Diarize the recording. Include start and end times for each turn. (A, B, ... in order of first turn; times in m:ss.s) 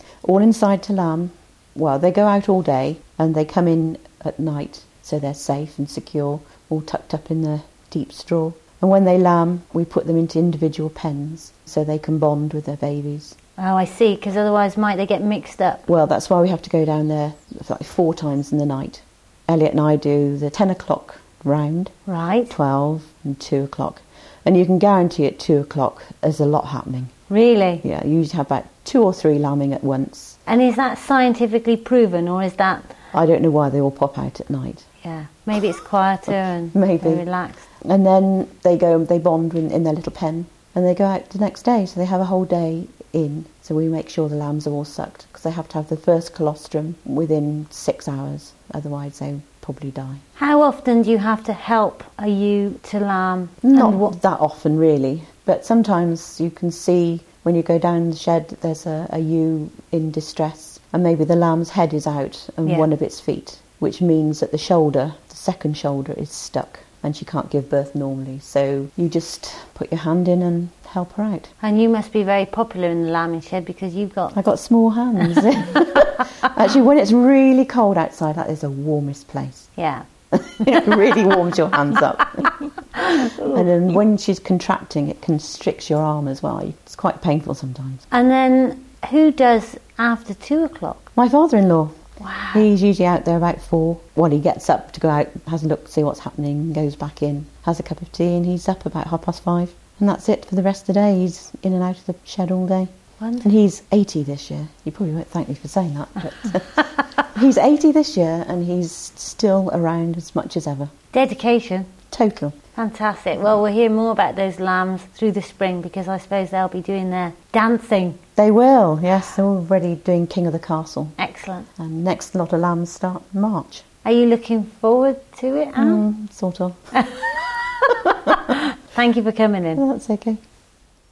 0:00.2-0:13.4 A
0:13.6-0:15.8 B
0:15.9-0:21.9 A
0:22.1-0:22.5 B
0:22.5-0:27.1 A
0:27.3-0:27.8 B
0:27.8-0:30.4 A
0:30.5-0:32.9 B
0:33.1-0:34.9 A
0:35.0-0:37.7 B
0:36.7-0:37.3 A
0:37.8-0:50.2 A
0:50.4-0:54.1 B
0:53.6-1:11.5 A
1:11.6-1:14.4 B
1:14.3-1:19.7 A
1:19.8-1:20.0 B
1:20.3-1:22.6 A
1:20.6-1:21.0 B
1:23.4-1:28.0 A
1:28.1-1:31.1 B
1:31.2-1:50.9 A
1:32.2-1:32.7 B
1:43.2-1:43.5 B
1:51.1-1:51.9 B
1:52.1-1:52.6 A
1:52.8-1:58.2 B
1:58.4-2:01.2 A
2:01.2-2:01.7 B
2:01.8-2:03.8 A
2:04.0-2:06.0 B
2:05.8-2:06.9 A
2:08.5-2:09.8 B
2:09.8-2:10.4 A